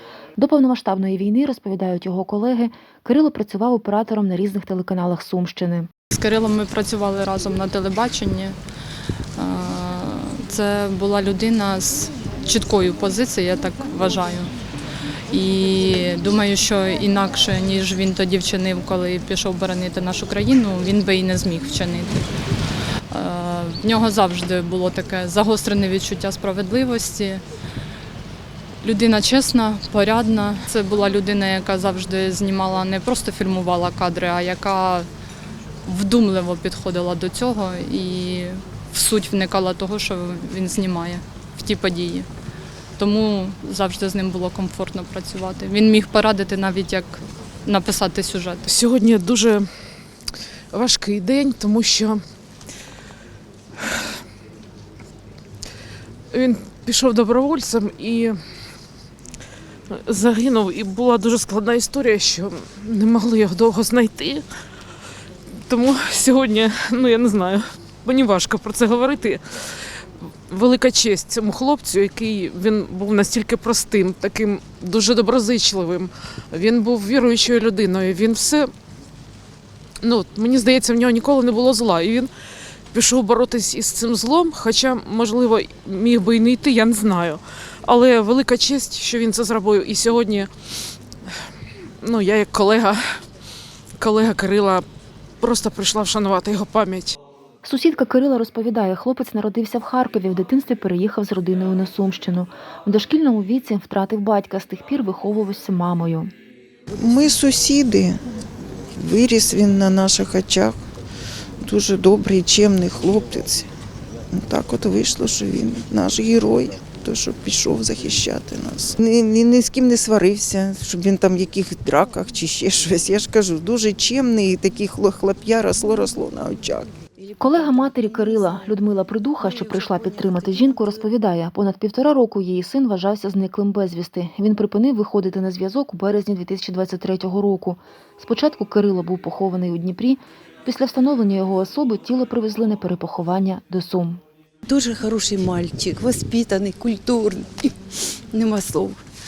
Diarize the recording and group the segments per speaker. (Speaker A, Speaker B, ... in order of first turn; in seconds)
Speaker A: 0.4-5.9, 97.6-106.3, 127.4-144.2
Speaker B: 6.1-8.6, 9.4-14.5, 15.3-22.2, 23.1-27.4, 28.8-35.1, 35.9-42.3, 43.0-48.7
Speaker C: 48.7-49.7, 50.7-52.2, 53.9-54.1, 56.3-58.4, 59.9-64.5, 65.5-78.7, 80.0-82.3, 82.9-90.5, 91.2-93.2, 94.0-94.8, 95.4-97.2
Speaker D: 107.0-108.2, 109.0-110.8, 111.6-113.7, 114.3-126.9
Speaker E: 127.9-128.5, 129.5-130.9, 144.7-147.8, 148.3-149.0